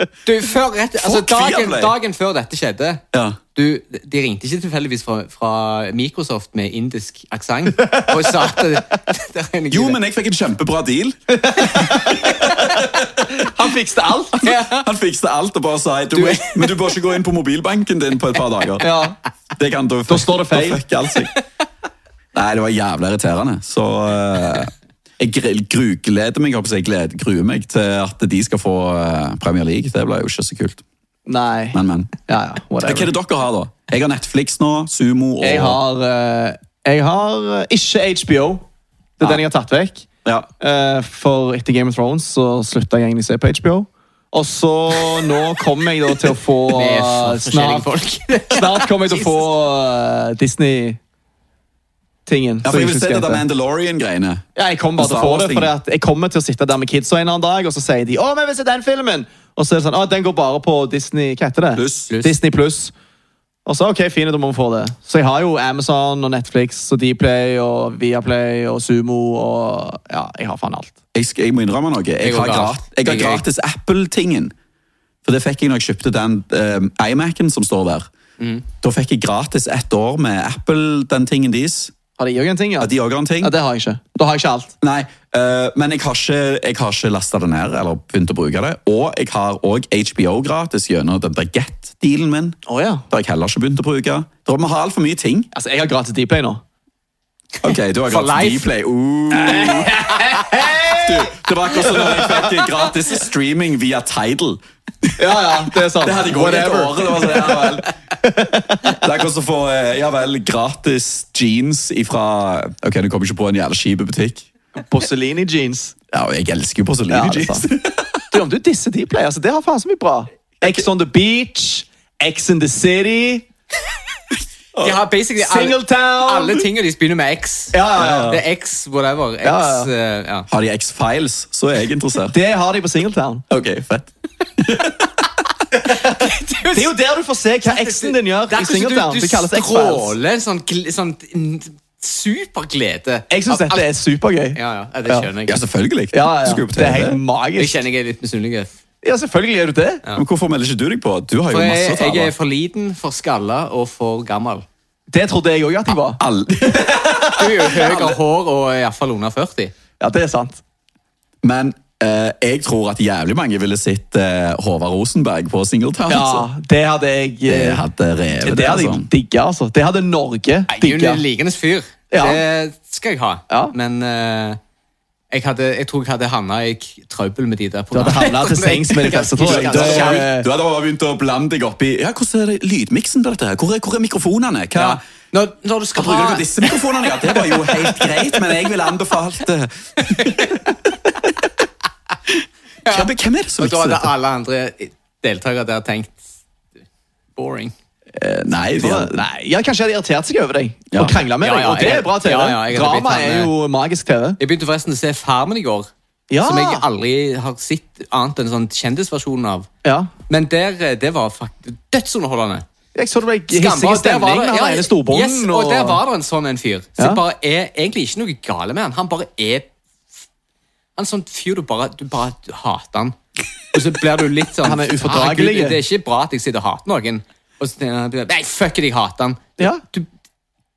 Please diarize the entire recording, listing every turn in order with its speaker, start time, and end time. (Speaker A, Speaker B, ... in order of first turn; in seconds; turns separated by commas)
Speaker A: 0.2-3.0, Speaker B: 1.0-1.9, Speaker B: 3.1-3.4, Speaker A: 3.5-10.0, Speaker B: 9.7-13.5, Speaker C: 11.3-12.7, Speaker C: 13.3-14.4, Speaker B: 14.4-18.9, Speaker A: 14.4-14.9, Speaker A: 16.1-16.9, Speaker C: 18.8-19.2, Speaker B: 19.6-21.3, Speaker C: 20.1-20.8, Speaker B: 22.3-30.8, Speaker C: 31.3-33.1, Speaker B: 31.7-32.1, Speaker B: 32.9-35.8, Speaker C: 35.4-38.6, Speaker C: 39.2-40.1, Speaker C: 40.6-47.9, Speaker A: 46.7-49.5, Speaker C: 48.5-51.0, Speaker C: 52.3-53.4, Speaker B: 52.6-54.5, Speaker C: 54.6-62.9, Speaker B: 55.0-55.7, Speaker B: 61.8-62.1, Speaker C: 63.7-70.9, Speaker B: 71.1-74.5, Speaker A: 72.2-73.4, Speaker B: 75.2-78.1, Speaker B: 78.7-81.9, Speaker C: 82.2-84.7, Speaker B: 82.8-83.5, Speaker B: 84.8-95.5, Speaker C: 92.7-93.0, Speaker C: 95.5-96.6, Speaker A: 97.6-98.7, Speaker B: 97.6-100.0, Speaker C: 99.3-101.3, Speaker B: 100.9-107.9, Speaker C: 101.9-102.4, Speaker C: 105.2-107.7, Speaker C: 108.2-109.0, Speaker B: 108.8-114.5, Speaker C: 114.8-116.0, Speaker B: 116.1-118.3, Speaker C: 117.1-117.7, Speaker C: 118.3-123.5, Speaker C: 124.8-126.6, Speaker A: 124.8-130.5, Speaker C: 127.7-128.4, Speaker B: 128.0-128.3, Speaker C: 129.4-129.9, Speaker B: 130.5-132.3, Speaker C: 132.3-133.4, Speaker B: 133.5-135.3, Speaker A: 135.9-136.9, Speaker C: 136.7-140.1, Speaker A: 137.6-143.8, Speaker C: 143.3-145.3, Speaker A: 144.5-145.6, Speaker B: 145.5-147.2, Speaker C: 146.1-147.8, Speaker A: 147.6-148.7, Speaker C: 149.0-150.0, Speaker B: 150.1-152.3, Speaker A: 151.5-154.7, Speaker C: 155.1-157.7, Speaker B: 156.2-158.2, Speaker A: 157.3-159.7, Speaker C: 160.0-160.6, Speaker B: 161.4-166.5, Speaker C: 166.1-167.8, Speaker B: 167.5-169.1, Speaker C: 168.4-171.2, Speaker A: 170.7-174.6, Speaker C: 172.1-172.4, Speaker A: 175.3-180.3, Speaker C: 177.9-180.5, Speaker B: 179.4-185.0, Speaker A: 184.8-188.3, Speaker B: 185.9-190.6, Speaker A: 190.0-190.6, Speaker B: 192.3-194.1, Speaker A: 192.9-196.2, Speaker A: 197.4-197.7, Speaker B: 198.2-199.2, Speaker C: 198.7-204.4, Speaker B: 200.9-201.2, Speaker A: 201.4-203.5, Speaker A: 204.4-205.9, Speaker C: 206.3-206.8, Speaker A: 206.4-209.7, Speaker C: 209.8-210.1, Speaker A: 210.3-212.7, Speaker C: 212.9-216.0, Speaker A: 213.5-219.7, Speaker A: 221.0-223.2, Speaker A: 223.7-230.1, Speaker C: 224.6-225.8